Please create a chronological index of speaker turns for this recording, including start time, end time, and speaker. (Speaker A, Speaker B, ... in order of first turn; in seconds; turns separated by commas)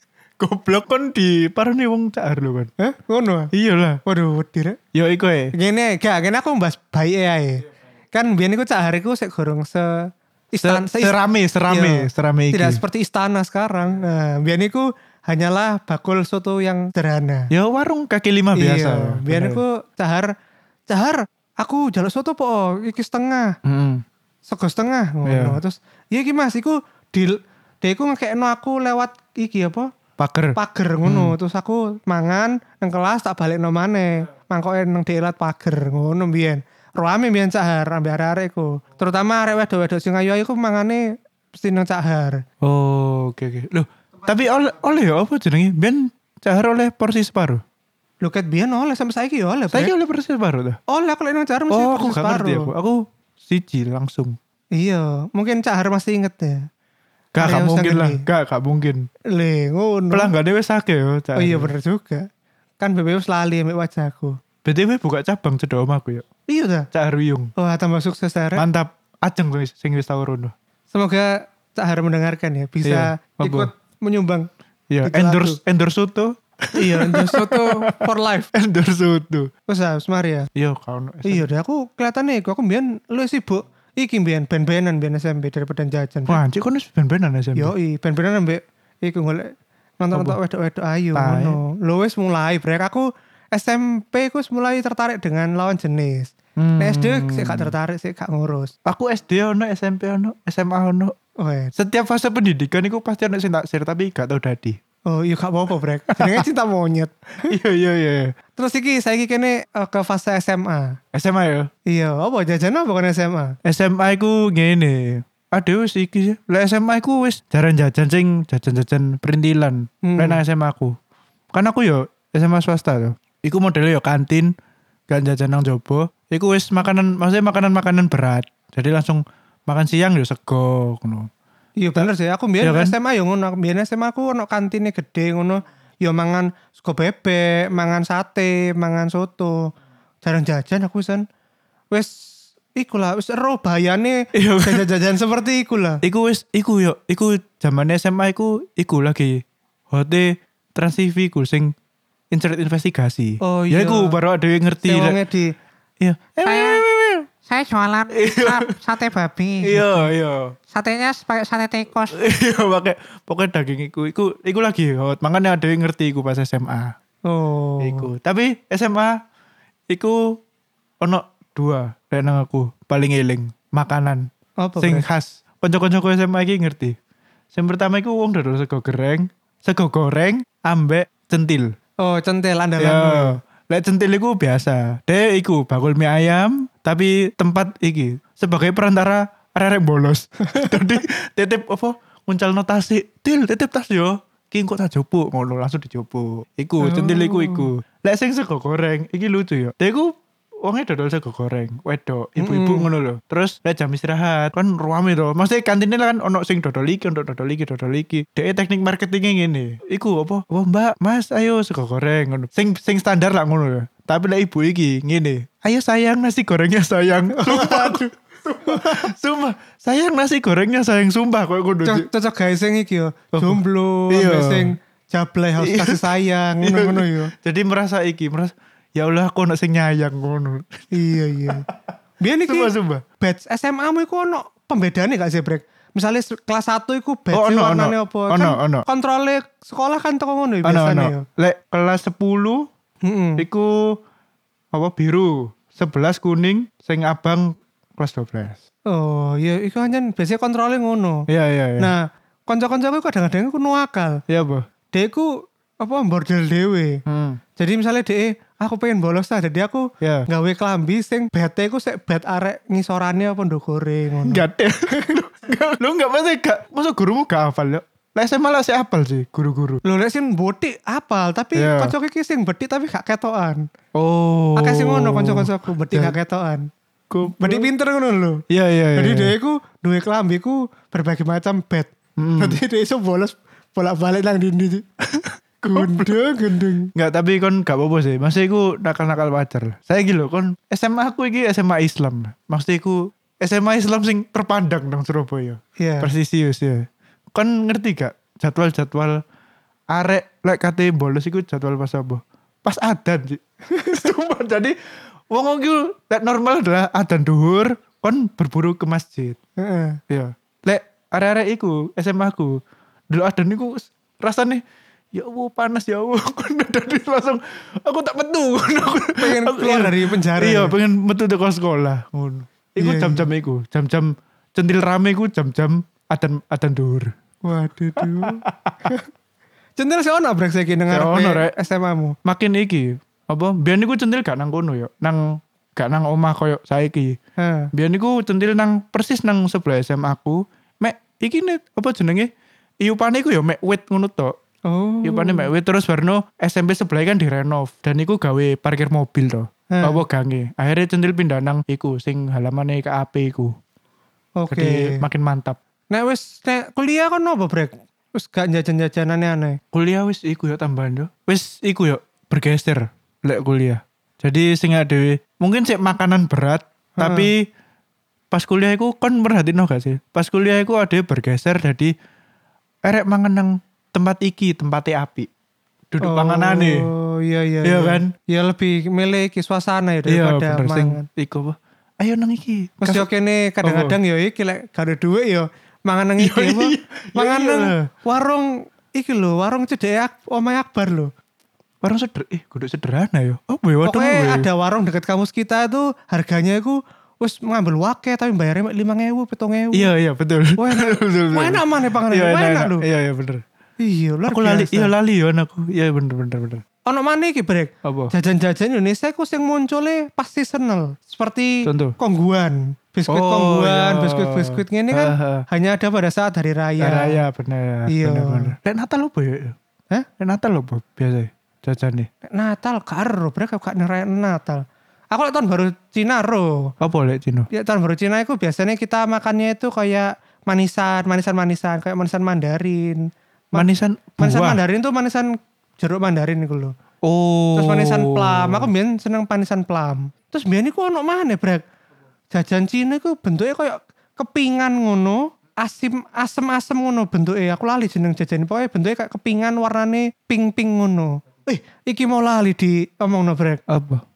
Speaker A: 0.4-2.7, Speaker B: 2.8-3.5, Speaker A: 3.5-4.0, Speaker B: 4.0-4.8, Speaker A: 4.9-5.5, Speaker B: 5.5-11.1, Speaker A: 10.6-12.8, Speaker B: 11.7-17.5, Speaker A: 17.5-19.6, Speaker B: 18.5-20.3, Speaker B: 20.9-23.6, Speaker A: 23.6-24.0, Speaker B: 24.5-29.9, Speaker A: 25.2-25.6, Speaker A: 30.2-31.4, Speaker B: 30.6-42.4, Speaker A: 42.6-47.6, Speaker B: 48.2-49.9, Speaker A: 49.7-50.8, Speaker B: 50.9-52.7, Speaker A: 51.7-54.4, Speaker B: 54.8-56.7, Speaker A: 57.3-59.1, Speaker B: 57.4-58.2, Speaker B: 59.3-60.3, Speaker A: 60.1-61.7, Speaker B: 61.4-62.2, Speaker B: 62.8-64.4, Speaker A: 64.6-66.3, Speaker B: 66.5-66.9, Speaker A: 66.9-67.5, Speaker B: 67.6-68.6, Speaker A: 68.5-70.5, Speaker B: 70.9-74.5, Speaker A: 72.8-73.7, Speaker A: 74.9-78.0, Speaker B: 75.0-75.6, Speaker B: 76.7-78.5, Speaker A: 78.5-79.5, Speaker B: 79.7-80.5, Speaker A: 80.5-81.5, Speaker B: 81.2-86.4, Speaker A: 86.3-87.7, Speaker B: 87.5-98.7, Speaker A: 90.1-90.4, Speaker A: 91.1-91.6, Speaker A: 96.6-97.7, Speaker A: 98.8-101.1, Speaker B: 101.4-101.7, Speaker A: 101.7-104.8, Speaker B: 105.1-107.5, Speaker A: 106.1-106.4, Speaker A: 107.5-108.3, Speaker B: 108.5-111.0, Speaker A: 111.1-111.7, Speaker B: 111.9-113.5, Speaker A: 113.6-121.0, Speaker B: 120.0-120.4, Speaker A: 121.5-124.5, Speaker A: 125.1-131.3, Speaker B: 131.8-139.7, Speaker A: 132.6-132.9, Speaker B: 140.2-141.2, Speaker B: 141.9-146.0, Speaker A: 144.3-144.8, Speaker A: 146.0-151.7, Speaker A: 152.3-155.2, Speaker B: 153.4-154.2, Speaker B: 154.8-155.5, Speaker A: 156.0-157.3, Speaker C: 156.4-156.8, Speaker C: 157.4-159.9, Speaker A: 158.1-158.7, Speaker B: 159.1-159.8, Speaker A: 159.6-160.5, Speaker C: 160.7-162.2, Speaker A: 162.1-166.9, Speaker B: 167.3-168.1, Speaker A: 167.8-169.2, Speaker A: 169.9-170.4, Speaker A: 171.0-176.9, Speaker B: 174.6-175.1, Speaker A: 177.5-181.7, Speaker B: 182.0-183.4, Speaker A: 182.8-222.1, Speaker B: 196.8-197.7, Speaker B: 202.4-202.9, Speaker B: 217.3-218.1, Speaker B: 218.6-219.1, Speaker B: 221.8-227.3, Speaker A: 223.3-224.7, Speaker A: 225.6-231.7, Speaker B: 230.9-231.7, Speaker B: 232.2-241.2, Speaker A: 232.4-233.0, Speaker A: 237.3-238.8, Speaker A: 240.6-242.7, Speaker B: 243.0-243.4, Speaker A: 243.4-244.0, Speaker A: 244.7-248.6, Speaker B: 248.9-251.2, Speaker A: 251.3-251.9, Speaker B: 251.8-254.2, Speaker A: 254.3-254.7, Speaker B: 254.9-257.0, Speaker A: 257.1-257.4, Speaker B: 257.6-265.2, Speaker A: 260.0-260.3, Speaker A: 264.2-269.8, Speaker B: 269.8-273.6, Speaker A: 271.6-271.9, Speaker A: 273.9-276.1, Speaker B: 274.6-276.7, Speaker A: 277.1-277.7, Speaker B: 277.2-278.4, Speaker A: 278.5-279.3, Speaker B: 278.9-284.8, Speaker A: 282.2-282.6, Speaker A: 285.1-286.2, Speaker B: 285.7-286.9, Speaker A: 286.9-299.2, Speaker B: 295.8-296.1, Speaker A: 299.9-304.8, Speaker B: 303.7-304.1, Speaker A: 305.3-309.4, Speaker B: 309.6-310.0, Speaker A: 310.1-312.6, Speaker A: 313.1-314.6, Speaker A: 315.1-327.1, Speaker B: 319.2-320.8, Speaker B: 322.8-323.3, Speaker B: 327.4-329.0, Speaker A: 328.0-328.9, Speaker B: 329.8-332.1, Speaker A: 330.9-331.5, Speaker A: 332.2-337.2, Speaker B: 337.4-337.7, Speaker A: 337.7-342.3, Speaker A: 342.8-344.4, Speaker B: 344.7-345.5, Speaker A: 345.0-353.5, Speaker B: 349.7-350.0, Speaker B: 354.4-355.0, Speaker A: 354.5-355.6, Speaker B: 355.9-359.6, Speaker A: 359.7-367.5, Speaker B: 367.0-367.3, Speaker A: 368.3-371.9, Speaker A: 372.8-375.3, Speaker A: 375.9-376.9, Speaker B: 376.0-381.1, Speaker A: 377.6-378.1, Speaker A: 380.1-383.1, Speaker B: 382.8-391.1, Speaker A: 383.6-384.0, Speaker A: 386.2-387.8, Speaker A: 391.8-394.5, Speaker B: 393.8-399.9, Speaker A: 399.7-403.4, Speaker B: 400.6-402.8, Speaker B: 403.8-404.9, Speaker A: 404.3-406.6, Speaker B: 406.9-417.2, Speaker A: 407.8-408.1, Speaker A: 411.6-411.9, Speaker A: 413.1-415.4, Speaker A: 416.8-419.6, Speaker B: 417.9-418.5, Speaker A: 420.2-422.1, Speaker B: 422.2-426.7, Speaker A: 426.8-427.5, Speaker B: 427.5-436.7, Speaker A: 433.5-434.6, Speaker A: 437.0-438.7, Speaker B: 437.5-441.6, Speaker B: 442.3-453.6, Speaker A: 453.7-454.0